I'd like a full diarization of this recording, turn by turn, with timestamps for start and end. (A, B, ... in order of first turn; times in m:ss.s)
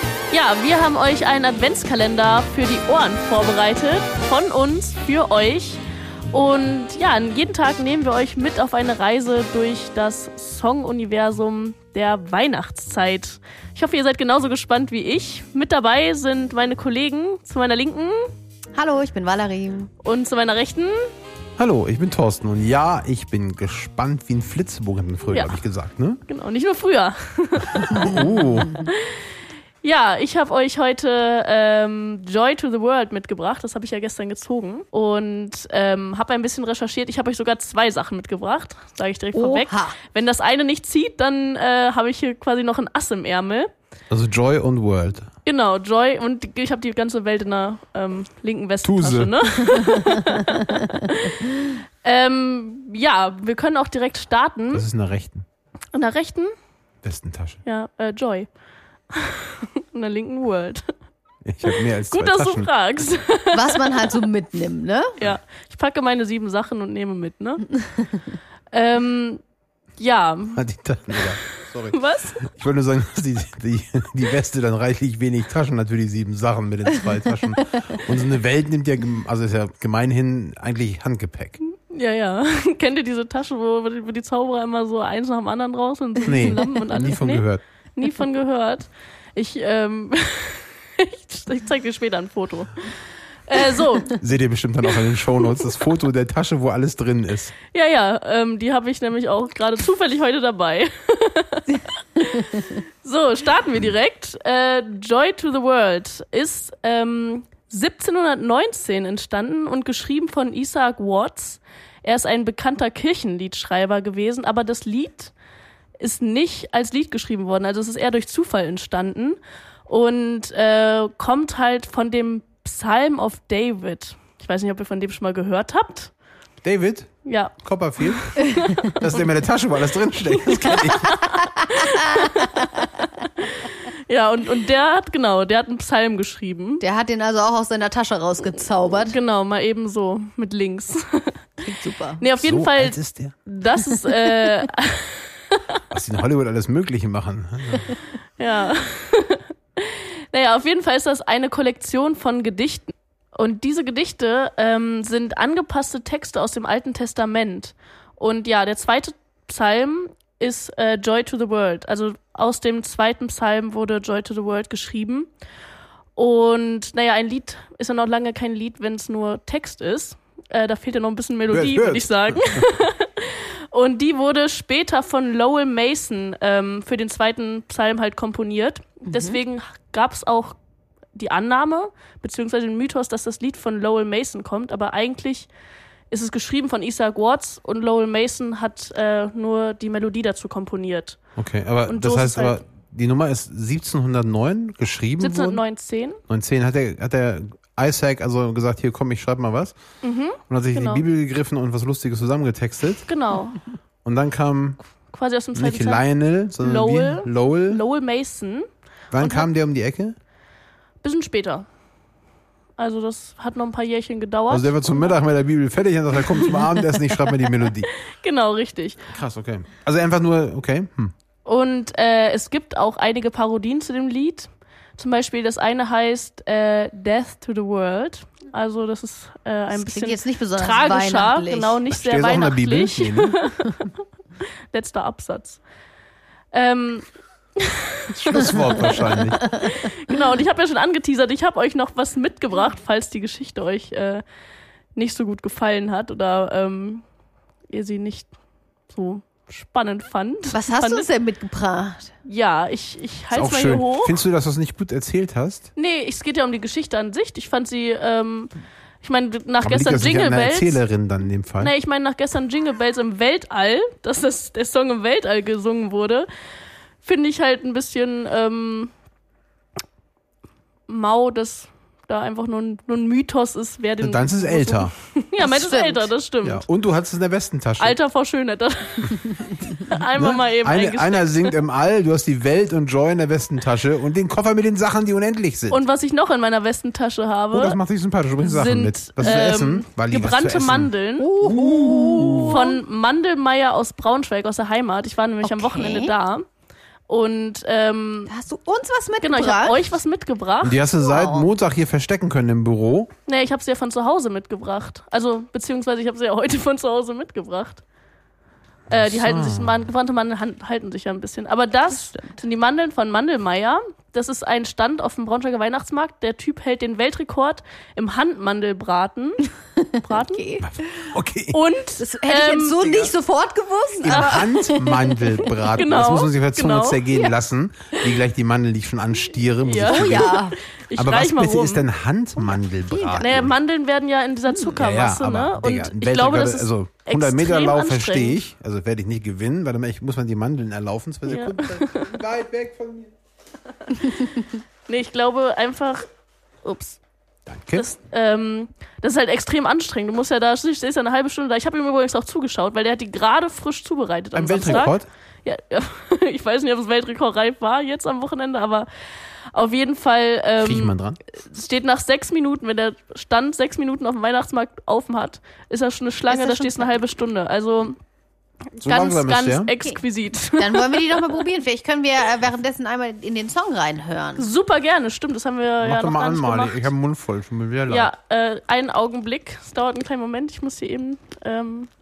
0:00.3-0:05.8 A
0:06.3-0:18.3 A
0:18.7-0:19.9 B
0:20.0-0:20.9 A
0:21.6-0:26.2 C
0:25.3-0:25.5 A
0:26.3-0:29.2 A
0:27.7-0:28.7 C
0:29.8-0:43.7 A
0:39.3-0:40.0 B
0:44.1-0:45.3 C
0:45.4-0:54.8 A
0:48.8-0:49.5 C
0:49.9-0:50.2 B
0:54.7-0:55.4 C
0:55.9-0:56.5 A
0:57.0-0:57.6 C
0:57.6-0:58.5 A
0:59.1-1:00.9 A
1:01.4-1:02.7 C
1:01.6-1:04.1 A
1:03.5-1:05.1 B
1:05.2-1:08.0 A
1:08.7-1:09.4 A
1:10.0-1:10.6 A
1:10.6-1:21.6 C
1:11.9-1:12.4 A
1:21.6-1:32.9 A
1:26.2-1:27.6 C
1:33.5-1:34.2 A
1:34.1-1:37.5 C
1:37.7-1:55.3 A
1:56.0-2:06.1 A
2:06.6-2:11.2 C
2:07.2-2:07.5 A
2:08.2-2:09.2 A
2:10.3-2:16.8 A
2:11.1-2:12.6 B
2:16.8-2:19.2 B
2:19.0-2:21.4 A
2:21.6-2:22.2 B
2:22.2-2:25.8 A
2:22.4-2:23.4 C
2:23.8-2:24.5 B
2:25.9-2:27.9 C
2:28.4-2:45.3 A
2:46.1-3:00.6 A
2:51.5-2:52.7 C
2:59.0-2:59.4 B
3:01.1-3:05.5 A
3:06.1-3:11.2 A
3:11.4-3:15.6 C
3:11.9-3:12.6 A
3:15.2-3:16.2 A
3:16.3-3:19.8 C
3:20.0-3:21.0 A
3:20.5-3:23.1 C
3:23.0-3:23.6 A
3:24.0-3:24.8 C
3:25.1-3:26.0 A
3:25.5-3:27.8 C
3:26.6-3:28.7 A
3:29.1-3:30.2 C
3:29.2-3:29.5 A
3:31.0-3:31.6 A
3:32.8-3:35.2 A
3:34.5-3:37.9 C
3:36.4-3:37.2 A
3:38.0-3:39.1 A
3:39.1-3:41.1 C
3:41.4-3:53.9 A
3:49.7-3:51.8 B
3:51.9-3:53.4 C
3:54.7-3:55.6 A
3:56.5-4:04.2 A
3:58.1-3:59.4 C
4:04.9-4:07.0 A
4:07.7-4:08.3 A
4:08.9-4:11.1 A
4:10.5-4:12.1 B
4:12.2-4:14.2 A
4:13.3-4:15.7 C
4:15.8-4:18.5 A
4:19.0-4:20.8 A
4:19.6-4:21.7 C
4:21.6-4:26.3 A
4:27.0-4:28.9 A
4:30.9-4:36.6 A
4:34.0-4:34.9 C
4:35.4-4:36.1 B
4:36.4-4:38.0 C
4:37.8-4:41.6 A
4:40.1-4:45.8 C
4:45.7-4:47.8 A
4:47.5-4:52.6 C
4:48.4-4:51.3 A
4:51.2-4:52.7 B
4:52.4-4:56.4 A
4:55.4-4:56.1 B
4:57.1-4:58.3 A
4:58.3-4:59.8 B
4:59.2-5:00.8 A
5:00.6-5:03.1 C
5:01.0-5:01.5 B
5:03.2-5:07.8 A
5:08.9-5:09.8 C
5:08.9-5:20.4 A
5:20.0-5:20.7 B
5:20.6-5:21.6 C
5:21.5-5:23.1 A
5:22.0-5:25.2 B
5:24.0-5:24.5 A
5:24.0-5:30.4 C
5:25.4-5:27.0 A
5:29.6-5:31.8 A
5:29.8-5:30.6 B
5:30.9-5:33.5 C
5:32.9-5:33.2 B
5:33.2-5:38.4 A
5:34.5-5:34.8 B
5:34.7-5:43.1 C
5:41.2-5:42.1 A
5:43.9-5:46.0 A
5:46.6-5:47.0 A
5:47.5-5:47.9 C
5:47.7-5:58.9 A
5:54.3-5:55.0 C
5:59.5-6:08.0 A
6:00.6-6:01.2 C
6:06.3-6:06.9 B
6:08.8-6:11.4 A
6:08.8-6:09.7 C
6:10.6-6:14.5 B
6:14.4-6:16.9 A
6:15.8-6:18.1 C
6:17.9-6:21.9 A